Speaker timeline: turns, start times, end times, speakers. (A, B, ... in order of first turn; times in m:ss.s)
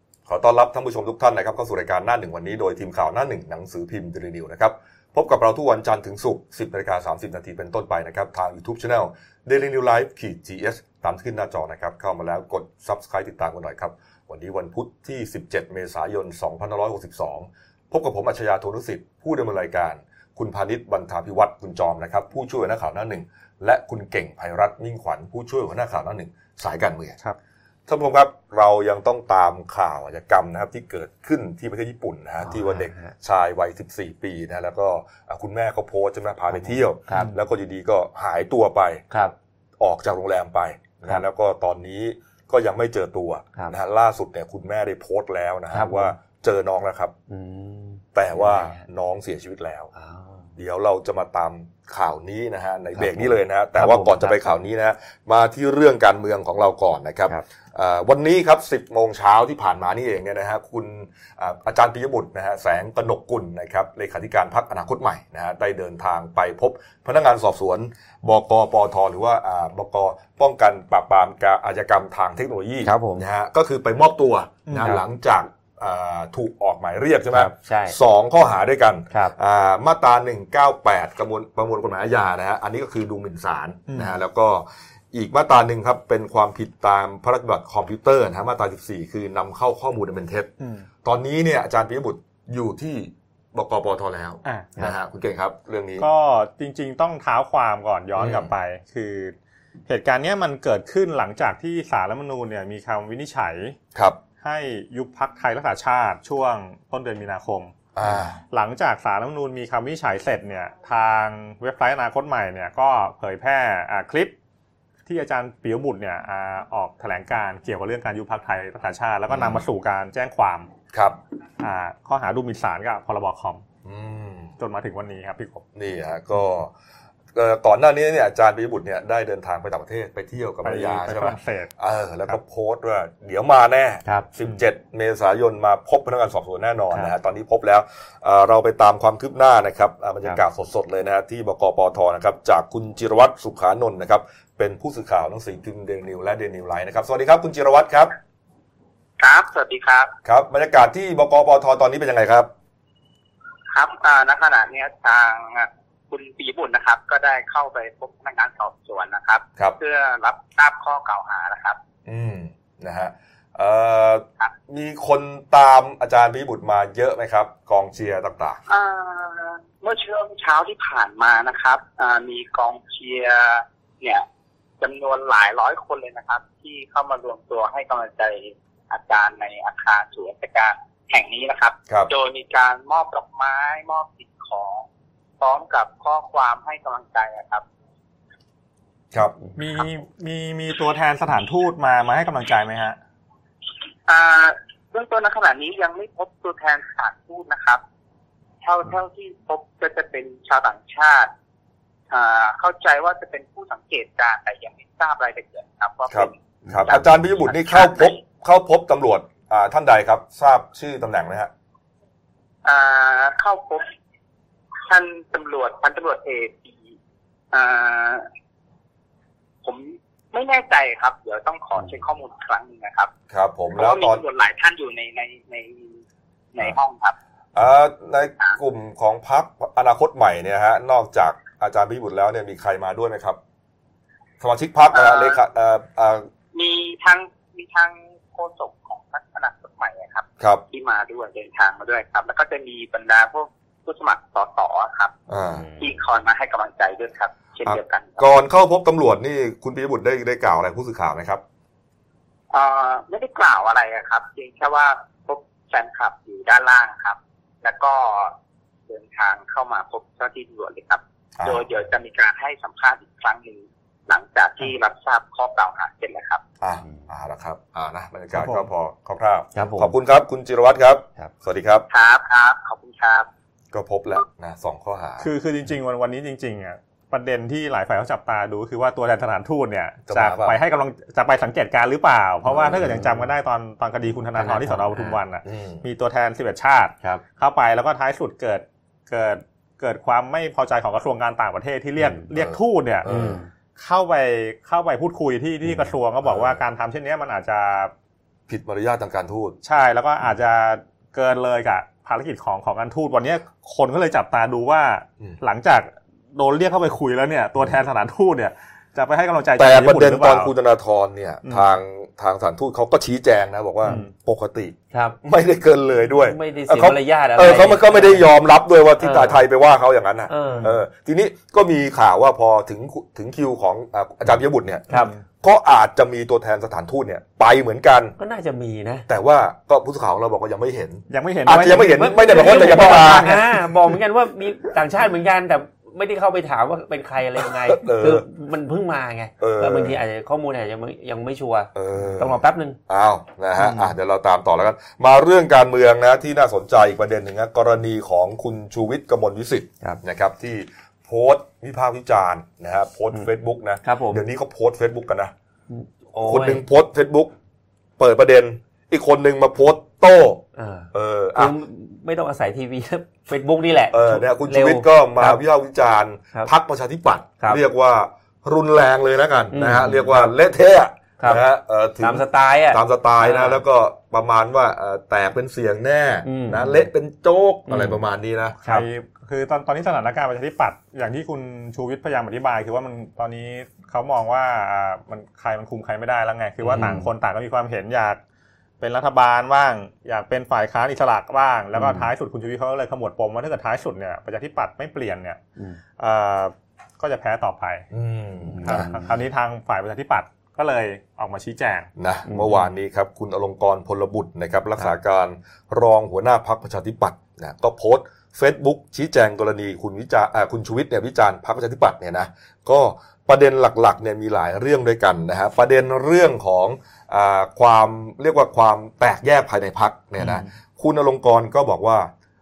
0:00.3-0:27.2 A
0:27.9-0:39.0 A
0:32.4-0:33.1 B
0:36.5-0:37.3 B
0:37.1-0:37.4 C
0:39.1-0:39.4 B
0:39.8-0:47.1 A
0:45.7-0:46.1 B
0:47.3-0:48.8 B
0:48.1-0:49.9 A
0:49.9-0:50.4 B
0:50.6-1:30.5 A
0:52.9-0:54.6 B
1:12.8-1:13.2 B
1:14.7-1:15.0 C
1:17.3-1:18.0 B
1:23.9-1:24.1 C
1:30.6-1:30.9 C
1:31.0-1:36.1 A
1:34.4-1:34.7 C
1:36.0-1:39.4 C
1:38.2-1:38.5 A
1:39.9-1:43.8 C
1:44.4-1:47.7 C
1:48.0-1:48.4 A
1:48.5-1:54.3 C
1:55.1-2:00.7 C
1:59.3-1:59.6 A
2:01.6-2:03.6 C
2:03.8-2:04.5 A
2:04.6-2:05.6 C
2:05.8-2:06.7 A
2:07.4-2:28.1 A
2:10.6-2:11.7 C
2:29.2-2:30.1 D
2:30.2-2:32.5 A
2:33.7-2:41.8 D
2:42.1-2:48.6 A
2:48.7-2:54.2 D
2:54.8-3:04.8 D
3:05.4-3:07.6 D
3:09.6-3:13.0 C
3:14.1-3:17.8 D
3:18.6-3:21.3 D
3:22.1-3:26.3 D
3:26.1-3:31.5 A
3:26.9-3:28.2 D
3:32.6-3:33.9 D
3:34.9-3:36.8 D
3:37.5-3:38.3 D
3:39.6-3:43.1 D
3:43.3-3:44.2 A
3:43.8-3:46.0 D
3:46.5-3:47.2 D
3:47.6-3:53.4 A
3:54.4-3:56.3 A
3:54.9-3:55.4 D
3:56.5-4:05.1 D
4:05.3-4:05.7 A
4:05.5-4:06.0 B
4:05.8-4:08.3 D
4:07.7-4:11.4 A
4:12.5-4:18.4 D
4:18.9-4:26.4 D
4:21.4-4:21.6 A
4:26.6-4:31.8 A
4:28.4-4:28.7 C
4:29.5-4:29.9 B
4:31.9-4:33.3 D
4:33.7-4:35.3 A
4:35.2-4:53.1 C
4:40.1-4:40.6 A
4:42.5-4:43.0 A
4:42.7-4:43.3 B
4:44.4-4:45.2 B
4:45.4-4:45.8 A
4:52.0-4:52.2 B
4:52.4-4:53.4 A
4:53.0-4:53.5 B
4:53.8-4:57.9 C
4:58.5-4:59.6 A
4:59.6-5:10.5 C
5:09.6-5:24.9 A
5:14.9-5:15.2 B
5:16.2-5:18.3 B
5:19.0-5:19.4 B
5:20.3-5:20.7 B
5:20.4-5:20.7 C
5:24.9-5:25.2 C
5:24.9-5:25.2 B
5:25.4-5:28.2 A
5:28.2-5:29.1 B
5:29.1-5:33.4 A
5:31.1-5:33.4 C
5:32.2-5:42.8 B
5:37.4-5:38.2 A
5:39.4-5:40.0 A
5:41.8-5:55.3 A
5:43.6-5:44.0 B
5:53.8-5:54.2 B
5:55.7-5:56.6 B
5:56.2-5:57.3 A
5:58.0-6:00.4 A
6:00.6-6:05.4 B
6:00.9-6:01.5 A
6:03.9-6:18.6 A
6:09.5-6:10.3 B
6:12.0-6:13.6 B
6:16.2-6:16.9 B
6:17.7-6:18.0 B
6:18.6-6:28.2 C
6:26.6-6:26.9 A
6:26.7-6:27.1 B
6:28.8-6:35.4 C
6:31.7-6:32.1 B
6:36.0-6:37.9 C
6:37.9-6:38.9 A
6:38.5-6:39.1 B
6:38.6-6:41.9 C
6:42.0-7:02.1 A
6:42.3-6:42.7 B